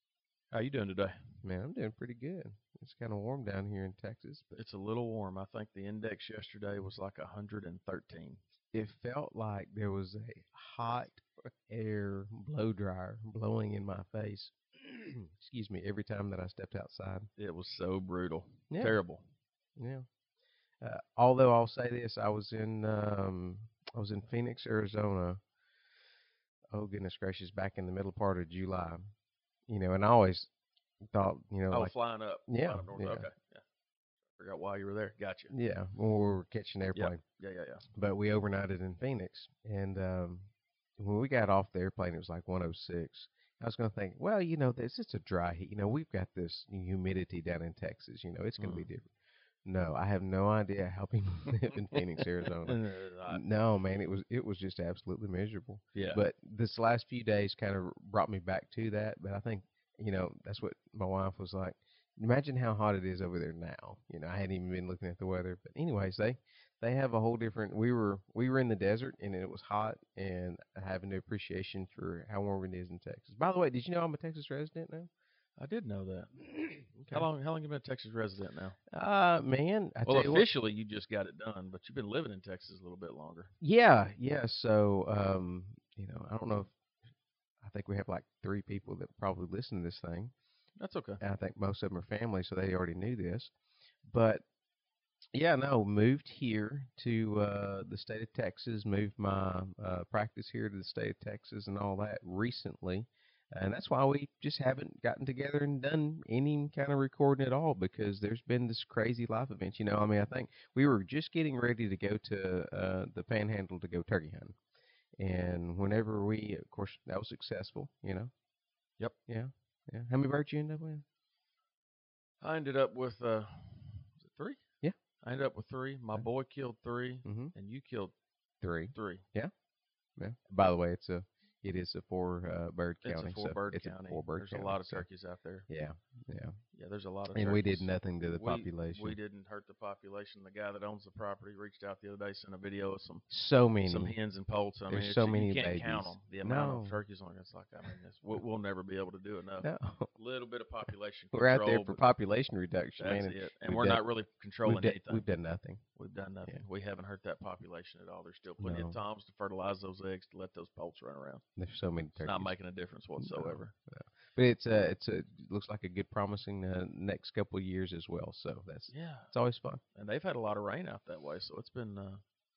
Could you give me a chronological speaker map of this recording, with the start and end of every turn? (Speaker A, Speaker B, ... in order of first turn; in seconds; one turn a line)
Speaker A: 0.5-1.2
Speaker B: 1.4-4.6
Speaker A: 4.5-8.4
Speaker B: 8.7-17.3
Speaker A: 17.4-19.2
Speaker B: 18.7-19.0
Speaker B: 19.8-20.1
Speaker B: 20.8-25.4
Speaker B: 26.7-29.0
Speaker B: 29.7-30.5
Speaker B: 31.1-31.9
Speaker A: 31.7-33.6
Speaker B: 32.5-33.3
Speaker A: 34.4-35.5
Speaker B: 35.5-37.2
Speaker A: 36.9-37.8
Speaker B: 37.9-49.1
Speaker A: 48.6-48.9
Speaker B: 49.6-75.1
Speaker A: 51.9-53.4
Speaker A: 56.0-56.2
Speaker A: 75.6-78.8
Speaker B: 76.8-77.3
Speaker B: 78.9-80.5
Speaker A: 80.1-83.5
Speaker B: 83.6-86.7
Speaker B: 87.6-90.3
Speaker A: 90.8-91.2
Speaker B: 91.2-93.5
Speaker B: 94.0-94.4
Speaker B: 95.3-114.6
Speaker B: 115.2-118.3
Speaker B: 119.3-121.0
Speaker A: 122.4-124.6
Speaker A: 125.2-128.1
Speaker B: 127.2-127.5
Speaker B: 128.6-129.5
Speaker A: 128.9-129.2
Speaker B: 130.2-135.1
Speaker A: 133.0-135.7
Speaker B: 135.7-136.6
Speaker A: 136.7-143.2
Speaker B: 137.3-139.2
Speaker B: 143.3-144.1
Speaker A: 143.9-152.0
Speaker B: 144.9-147.0
Speaker B: 149.6-150.1
Speaker B: 151.3-154.0
Speaker A: 153.0-155.2
Speaker B: 154.7-155.8
Speaker A: 156.0-161.4
Speaker B: 158.6-159.0
Speaker B: 161.6-162.5
Speaker A: 162.2-163.7
Speaker B: 163.2-169.8
Speaker A: 168.9-169.3
Speaker A: 169.9-172.2